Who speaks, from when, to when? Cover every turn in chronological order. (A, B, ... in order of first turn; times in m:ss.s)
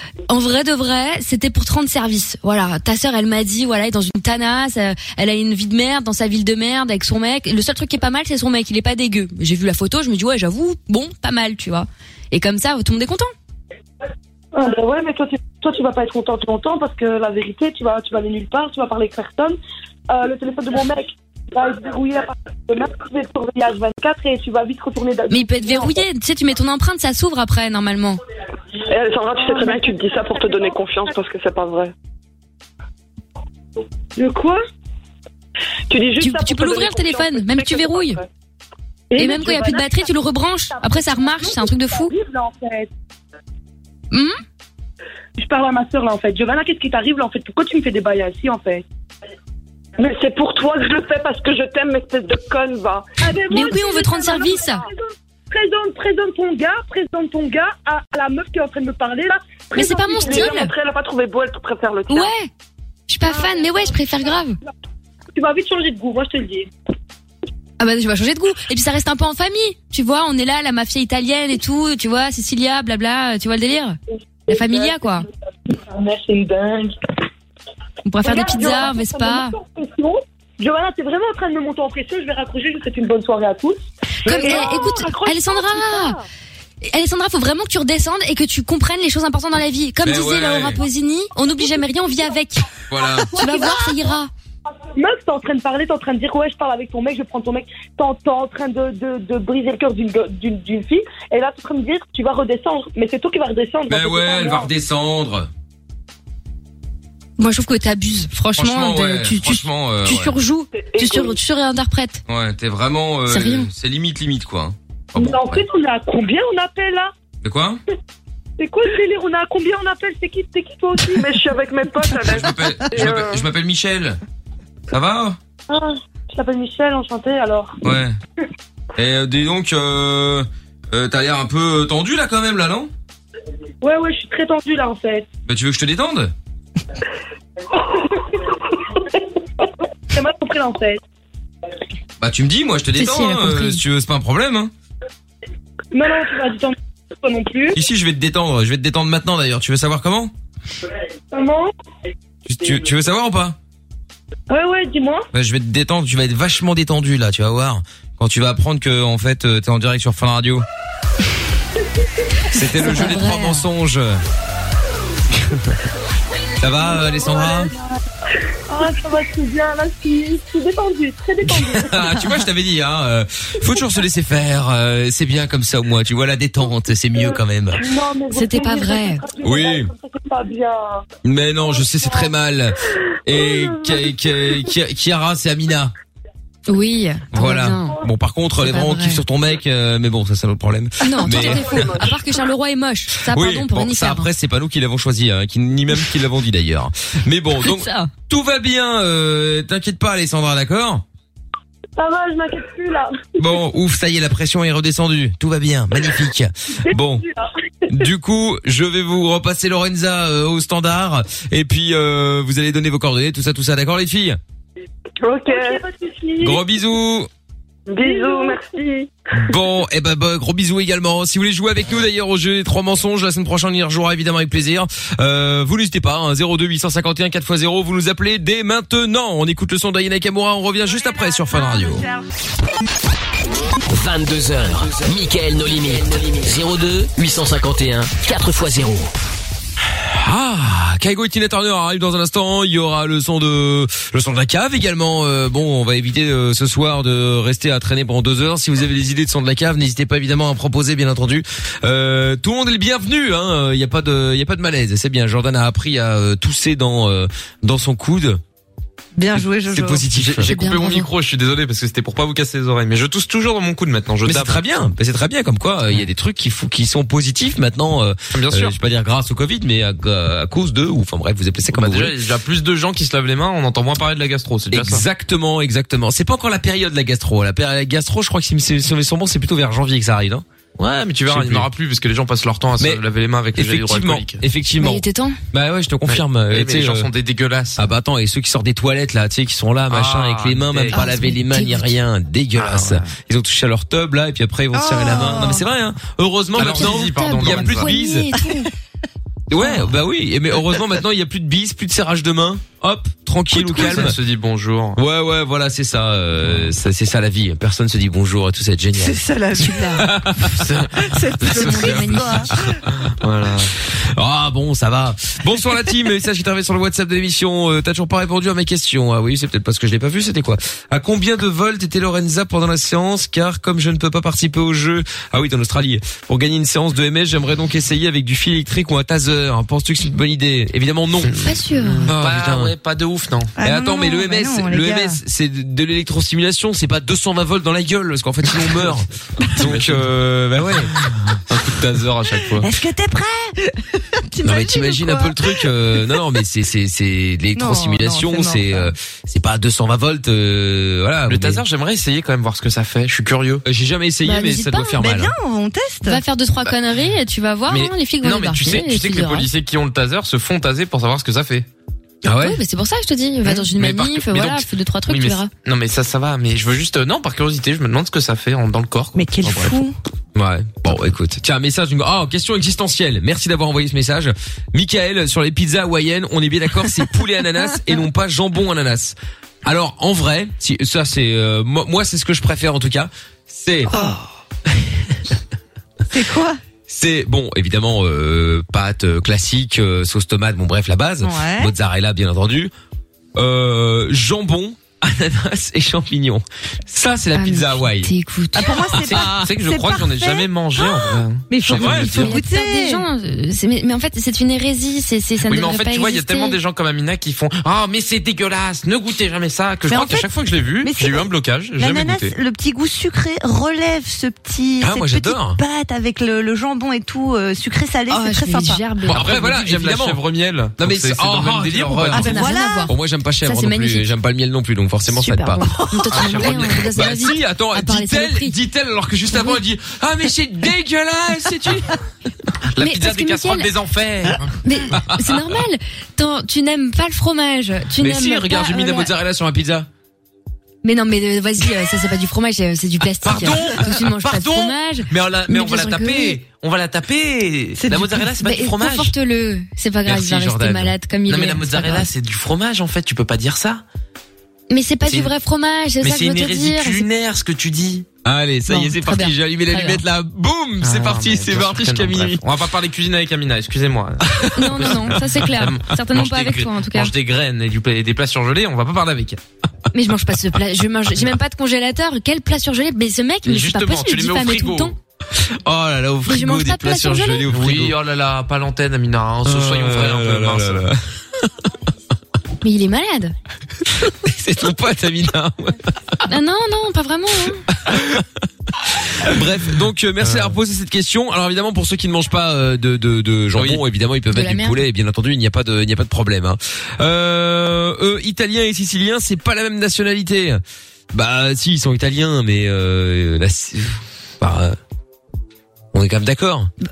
0:00.3-0:13.3 A
0:14.5-0:19.6 B
0:20.1-0:26.1 B
0:25.3-0:28.2 A
0:28.9-0:31.9 C
0:29.3-0:31.1 B
0:34.2-0:34.6 B
0:35.9-0:38.3 C
0:36.2-0:38.2 A
0:39.1-0:40.1 B
0:39.2-0:42.1 A
0:40.7-0:42.9 B
0:45.4-0:48.8 B
0:50.0-0:53.1 C
0:53.2-1:00.7 B
0:53.5-0:54.9 A
0:59.8-1:00.7 A
1:00.0-1:02.3 C
1:02.1-1:02.5 A
1:03.1-1:04.6 A
1:03.2-1:04.2 B
1:05.3-1:06.7 B
1:07.8-1:14.0 A
1:14.5-1:17.0 B
1:14.5-1:15.3 A
1:18.1-1:19.6 A
1:18.2-1:26.2 B
1:24.3-1:26.2 A
1:26.8-1:32.7 A
1:30.0-1:30.8 D
1:32.9-1:33.4 D
1:32.9-1:34.2 B
1:33.4-1:34.3 A
1:34.9-1:44.7 B
1:43.9-1:45.5 D
1:47.4-1:52.2 A
1:48.6-1:50.4 D
1:50.8-1:51.4 C
1:52.3-1:55.6 D
1:53.3-1:53.7 A
1:55.2-1:57.1 B
1:57.4-1:57.8 D
1:58.6-2:01.5 B
2:01.0-2:03.4 C
2:02.2-2:04.2 D
2:04.9-2:05.4 D
2:05.7-2:07.8 B
2:07.8-2:08.2 D
2:09.0-2:12.9 D
2:13.8-2:15.3 B
2:15.5-2:16.3 D
2:20.1-2:21.0 B
2:22.2-2:24.7 D
2:23.0-2:23.8 A
2:25.9-2:27.8 B
2:27.7-2:30.3 D
2:31.3-2:31.7 B
2:32.5-2:33.6 D
2:34.5-2:35.3 B
2:35.3-2:40.6 D
2:42.5-2:44.2 D
2:42.8-2:43.6 A
2:45.4-2:45.7 D
2:46.6-2:47.7 D
2:46.8-2:47.9 B
2:48.7-2:52.2 B
2:51.5-2:57.8 D
2:57.2-3:01.0 B
2:58.3-2:59.2 A
2:59.4-2:59.9 D
3:01.2-3:05.9 D
3:01.7-3:02.3 B
3:03.3-3:04.6 B
3:06.7-3:08.0 A
3:07.3-3:12.1 D
3:08.6-3:09.2 A
3:11.0-3:14.3 A
3:11.4-3:12.1 C
3:13.3-3:21.0 D
3:17.6-3:18.1 A
3:22.0-3:23.4 B
3:23.4-3:27.2 D
3:26.8-3:28.0 B
3:27.9-3:34.4 D
3:35.2-3:35.8 C
3:35.5-3:36.6 B
3:36.4-3:37.3 D
3:37.9-3:39.1 C
3:38.0-3:38.6 B
3:39.3-3:52.1 D
3:50.9-3:52.3 E
3:53.9-3:59.1 F
4:00.1-4:18.4 D
4:19.2-4:20.1 E
4:19.6-4:20.5 D
4:20.2-4:24.6 G
4:20.5-4:21.1 A
4:24.2-4:32.2 D
4:28.3-4:28.8 G
4:31.7-4:35.0 G
4:34.7-4:40.4 D
4:40.8-4:44.4 G
4:41.3-4:41.7 D
4:43.6-4:47.1 D
4:44.8-4:45.4 A
4:46.1-4:47.9 G
4:47.8-4:58.3 D
4:49.9-4:51.1 G
4:50.9-4:51.9 A
4:52.6-4:53.1 G
4:54.7-4:55.6 E
4:56.6-4:57.9 G
4:56.7-4:58.7 A
4:59.5-5:04.2 D
5:03.5-5:05.0 G
5:03.7-5:04.1 E
5:05.0-5:10.8 D
5:09.0-5:10.2 E
5:10.6-5:12.1 G
5:11.0-5:12.8 E
5:11.4-5:12.7 D
5:11.5-5:12.4 A
5:13.2-5:13.7 G
5:14.2-5:31.6 D
5:31.4-5:32.1 A
5:31.9-5:33.5 G
5:32.1-5:32.7 D
5:33.6-5:35.2 E
5:33.6-5:41.1 D
5:39.5-5:40.1 G
5:41.5-5:42.7 G
5:42.6-5:46.0 E
5:44.4-5:51.6 D
5:47.6-5:48.9 E
5:51.3-5:53.6 G
5:53.6-5:55.3 D
5:54.2-5:55.0 A
5:55.0-5:56.2 E
5:56.0-5:59.5 A
5:57.7-6:01.7 G
6:02.2-6:02.6 D
6:02.4-6:05.5 A
6:03.6-6:09.8 G
6:09.2-6:10.0 E
6:10.4-6:24.0 D
6:23.9-6:24.3 E
6:24.7-6:25.2 D
6:26.1-6:26.6 E
6:26.9-6:32.7 D
6:31.2-6:31.7 E
6:33.4-6:38.1 D
6:37.4-6:39.0 A
6:38.5-6:43.0 E
6:39.0-6:42.4 G
6:41.8-6:42.1 D
6:41.8-6:46.6 A
6:45.4-6:52.3 G
6:49.9-6:50.3 E
6:50.8-6:58.8 E
6:54.8-6:55.6 D
6:58.1-6:59.3 A
6:59.1-7:02.3 G
6:59.1-7:00.2 D
7:00.8-7:05.7 D
7:02.1-7:04.1 A
7:02.2-7:02.9 E
7:05.1-7:08.6 A
7:05.7-7:06.2 E
7:06.1-7:06.9 G
7:06.3-7:12.0 D
7:09.3-7:09.6 A
7:12.7-7:14.5 G
7:12.8-7:13.7 A
7:14.6-7:19.1 A
7:14.9-7:15.5 D
7:18.0-7:19.9 D
7:20.8-7:26.4 A
7:23.2-7:24.2 D
7:23.3-7:29.1 G
7:27.8-7:28.3 E
7:28.4-7:32.1 A
7:30.1-7:30.9 D
7:31.3-7:33.8 G
7:34.7-7:37.1 A
7:35.1-7:35.3 G
7:36.0-7:38.1 G
7:38.2-7:42.4 D
7:38.7-7:40.0 A
7:40.8-7:49.4 G
7:44.4-7:45.1 D
7:44.6-7:47.1 A
7:49.9-7:55.0 A
7:53.4-7:55.0 G
7:55.6-7:58.0 D
7:56.3-7:57.4 A
7:57.5-8:00.9 G
7:59.4-8:01.0 D
8:02.6-8:03.3 A
8:04.1-8:05.8 D
8:06.3-8:07.6 A
8:07.8-8:08.3 D
8:09.1-8:20.6 D
8:10.2-8:10.6 G
8:13.5-8:13.8 G
8:14.3-8:14.8 A
8:21.1-8:24.8 D
8:25.9-8:26.7 D